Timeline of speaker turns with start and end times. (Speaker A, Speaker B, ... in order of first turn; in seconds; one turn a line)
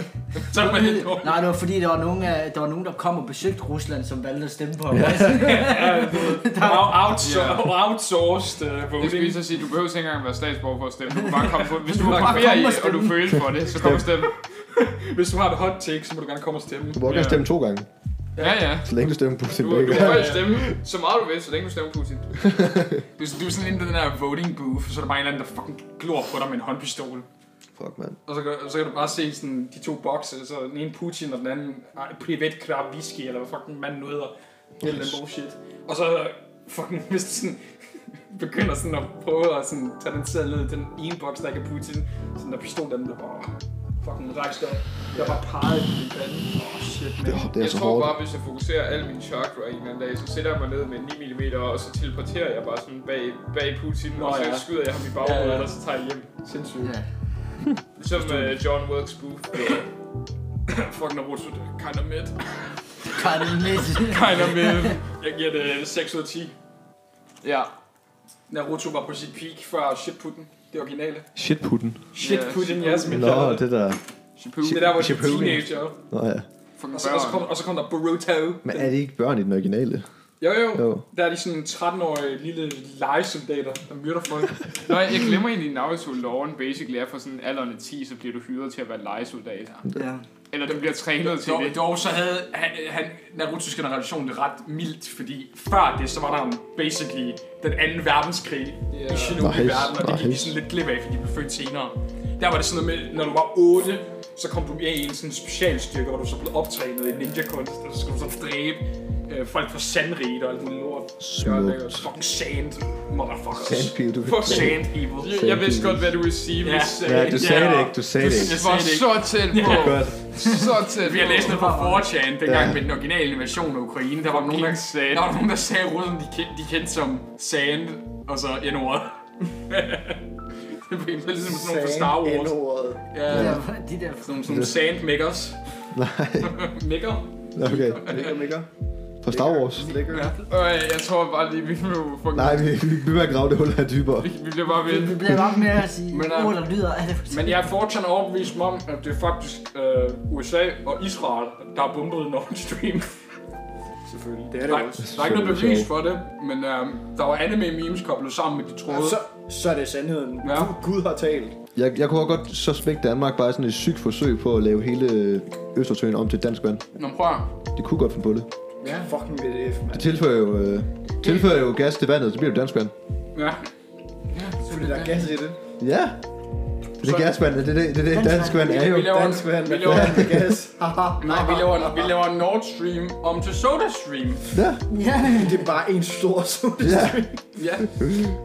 Speaker A: 0.4-1.4
Speaker B: 0.6-7.2
Speaker C: 4.9-5.5
Speaker A: 5.1-9.4
Speaker D: 7.2-7.7
Speaker D: 9.0-14.3
Speaker B: 11.1-13.4
Speaker A: 12.0-12.6
Speaker A: 13.8-17.4
Speaker C: 16.9-17.9
Speaker D: 17.0-17.4
Speaker A: 18.4-18.8
Speaker D: 18.4-18.9
Speaker C: 18.8-20.6
Speaker D: 19.5-22.5
Speaker A: 19.9-20.7
Speaker C: 22.6-22.9
Speaker A: 23.2-27.2
Speaker C: 27.8-28.2
Speaker A: 28.2-37.6
Speaker C: 34.8-35.2
Speaker A: 38.3-47.5
Speaker C: 47.2-48.2
Speaker D: 47.5-56.3
Speaker A: 54.1-55.7
Speaker A: 56.4-56.9
Speaker D: 58.0-59.9
Speaker A: 60.7-62.4
Speaker B: 63.1-64.9
Speaker D: 63.9-65.0
Speaker A: 64.1-66.5
Speaker D: 67.4-67.7
Speaker A: 68.5-71.3
Speaker C: 71.3-72.0
Speaker D: 72.1-73.5
Speaker A: 72.1-73.6
Speaker C: 73.1-74.0
Speaker D: 74.4-75.2
Speaker C: 74.6-76.5
Speaker A: 74.6-76.0
Speaker D: 76.8-77.5
Speaker A: 76.9-78.9
Speaker C: 78.6-80.0
Speaker A: 80.4-84.6
Speaker C: 80.7-81.0
Speaker D: 84.8-89.8
Speaker B: 89.9-90.2
Speaker D: 90.5-91.8
Speaker A: 90.7-115.3
Speaker D: 98.9-99.5
Speaker C: 99.4-100.6
Speaker C: 111.2-112.1
Speaker C: 113.5-116.1
Speaker D: 115.1-121.6
Speaker A: 116.6-120.1
Speaker C: 117.0-118.6
Speaker C: 119.6-120.2
Speaker A: 121.0-129.2
Speaker B: 121.2-122.1
Speaker C: 122.4-122.8
Speaker D: 124.3-125.3
Speaker A: 129.7-130.2
Speaker A: 130.9-132.6
Speaker E: 131.4-133.0
Speaker A: 133.1-133.6
Speaker B: 133.3-134.4
Speaker C: 133.3-133.6
Speaker A: 134.2-135.6
Speaker C: 134.4-134.8
Speaker C: 135.9-136.7
Speaker A: 136.4-138.5
Speaker C: 137.5-138.2
Speaker E: 137.9-138.7
Speaker C: 139.2-140.0
Speaker E: 139.3-140.3
Speaker A: 140.1-140.3
Speaker D: 140.3-142.8
Speaker C: 142.3-144.3
Speaker D: 144.2-145.3
Speaker B: 144.8-147.7
Speaker A: 146.1-146.6
Speaker A: 147.3-153.1
Speaker E: 154.1-155.1
Speaker A: 154.7-159.2
Speaker C: 155.0-155.9
Speaker E: 158.9-161.6
Speaker A: 160.4-160.7
Speaker C: 161.8-166.8
Speaker A: 166.9-167.5
Speaker C: 167.8-168.5
Speaker E: 168.9-170.1
Speaker C: 169.9-172.9
Speaker A: 173.3-173.6
Speaker B: 174.3-175.3
Speaker E: 174.6-175.6
Speaker C: 175.8-176.2
Speaker C: 177.0-180.5
Speaker A: 177.0-177.4
Speaker B: 178.1-178.8
Speaker A: 178.6-180.4
Speaker E: 179.0-182.2
Speaker A: 181.2-184.4
Speaker C: 184.5-184.8
Speaker B: 184.9-185.7
Speaker E: 185.0-187.4
Speaker C: 186.8-187.2
Speaker A: 187.6-187.9
Speaker C: 188.0-188.3